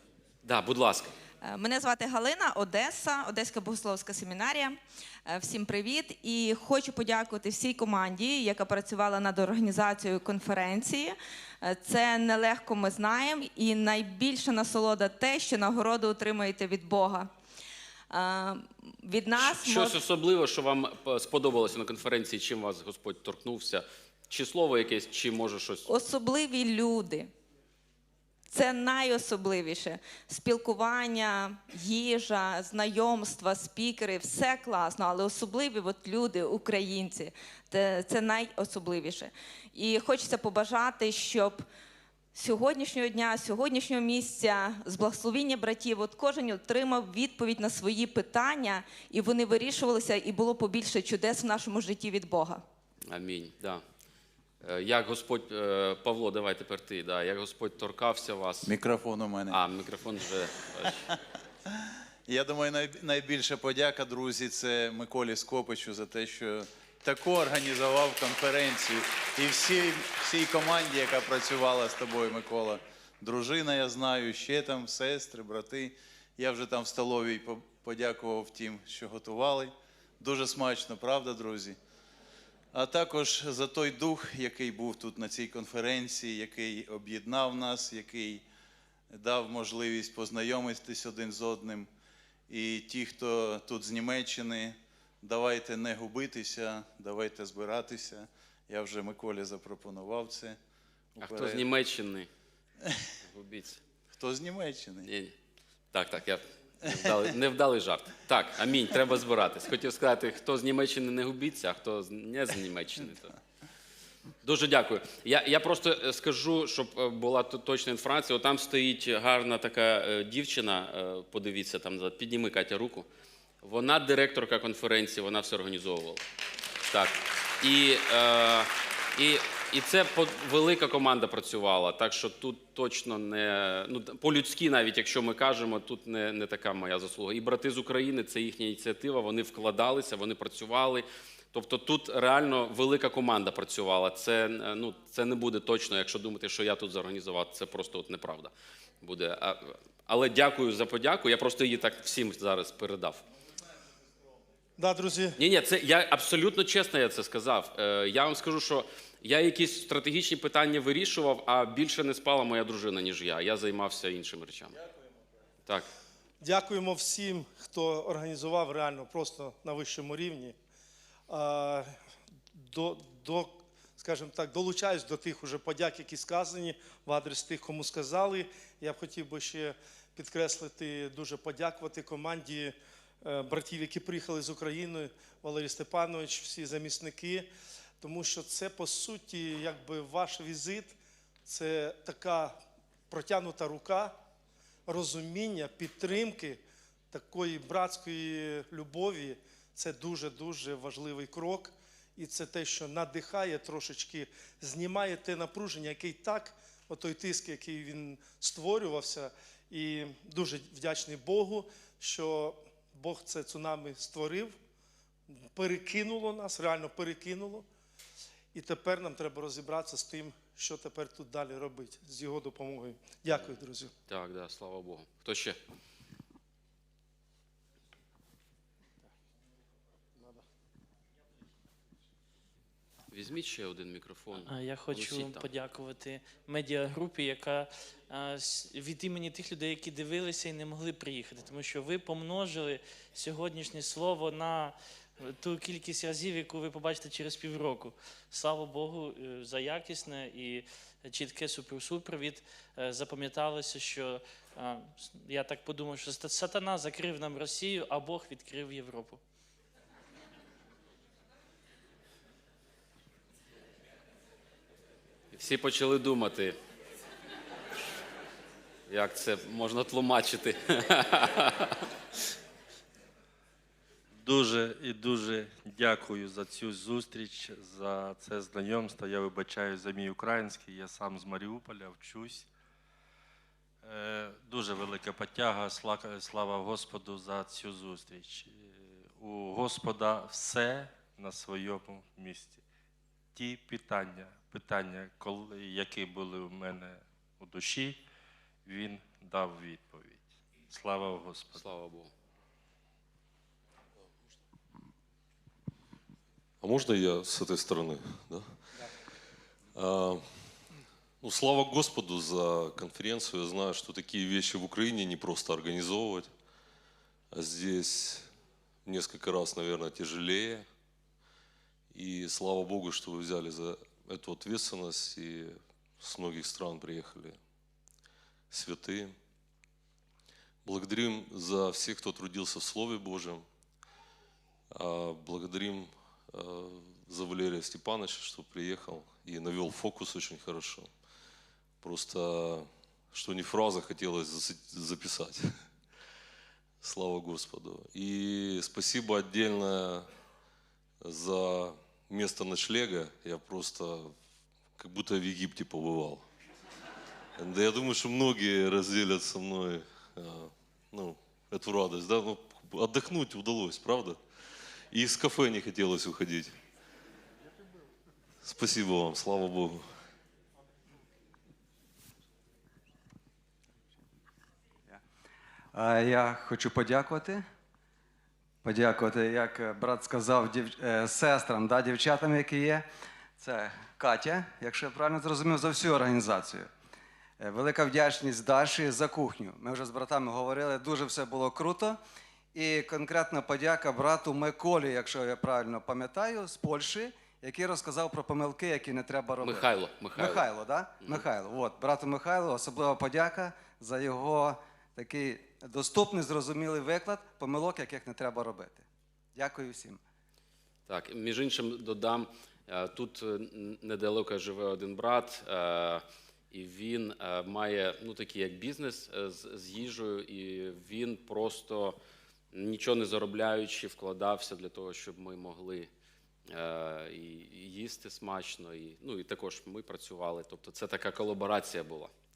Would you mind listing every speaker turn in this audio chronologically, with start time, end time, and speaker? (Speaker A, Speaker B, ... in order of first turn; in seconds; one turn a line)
Speaker A: 0.4-1.1
Speaker B: 1.4-17.3
Speaker B: 18.1-20.0
Speaker A: 19.4-25.9
Speaker B: 25.8-27.3
Speaker B: 28.5-41.6
Speaker B: 42.3-52.6
Speaker A: 53.1-53.8
Speaker A: 54.6-58.8
Speaker C: 58.6-59.6
Speaker A: 59.5-61.1
Speaker C: 61.7-81.8
Speaker C: 82.7-88.5
Speaker C: 89.1-91.9
Speaker C: 92.5-100.6
Speaker C: 101.1-101.7
Speaker A: 101.2-102.3
Speaker A: 103.2-103.8
Speaker C: 104.1-105.1
Speaker A: 105.0-105.3
Speaker A: 105.9-113.3
Speaker A: 114.4-123.0
Speaker A: 123.6-126.2
Speaker A: 126.9-148.5
Speaker A: 149.0-153.2
Speaker D: 154.8-155.4
Speaker A: 155.3-164.8
Speaker D: 166.4-170.6
Speaker D: 171.3-171.9
Speaker D: 172.5-182.7
Speaker D: 183.2-187.5
Speaker D: 188.0-190.9
Speaker D: 191.4-192.6
Speaker D: 193.1-194.1
Speaker D: 194.9-214.6
Speaker D: 215.5-217.6
Speaker D: 218.5-223.9
Speaker A: 223.3-225.6
Speaker A: 233.1-235.5
Speaker E: 234.5-244.7
Speaker E: 245.3-259.2
Speaker A: 265.3-266.6
Speaker A: 268.9-271.8
Speaker F: 274.2-282.5
Speaker F: 283.8-292.6
Speaker F: 293.3-298.0
Speaker F: 298.6-301.7
Speaker A: 301.5-302.1
Speaker G: 306.6-308.4
Speaker G: 309.7-310.6
Speaker G: 311.2-316.3
Speaker G: 317.3-318.3
Speaker G: 318.9-320.6
Speaker G: 321.9-327.4
Speaker G: 328.5-329.1
Speaker G: 330.6-333.4
Speaker G: 334.7-340.9
Speaker G: 341.8-345.4
Speaker G: 346.8-350.1
Speaker G: 351.0-354.1
Speaker G: 354.8-356.2
Speaker G: 357.4-364.2
Speaker G: 364.9-366.5
Speaker G: 368.4-369.8
Speaker H: 375.7-377.4
Speaker H: 378.6-382.9
Speaker H: 383.4-386.7
Speaker H: 387.4-392.0
Speaker H: 392.5-408.8
Speaker A: 399.4-400.5
Speaker H: 409.3-410.0
Speaker A: 410.9-422.0
Speaker A: 422.5-425.9
Speaker A: 426.5-432.1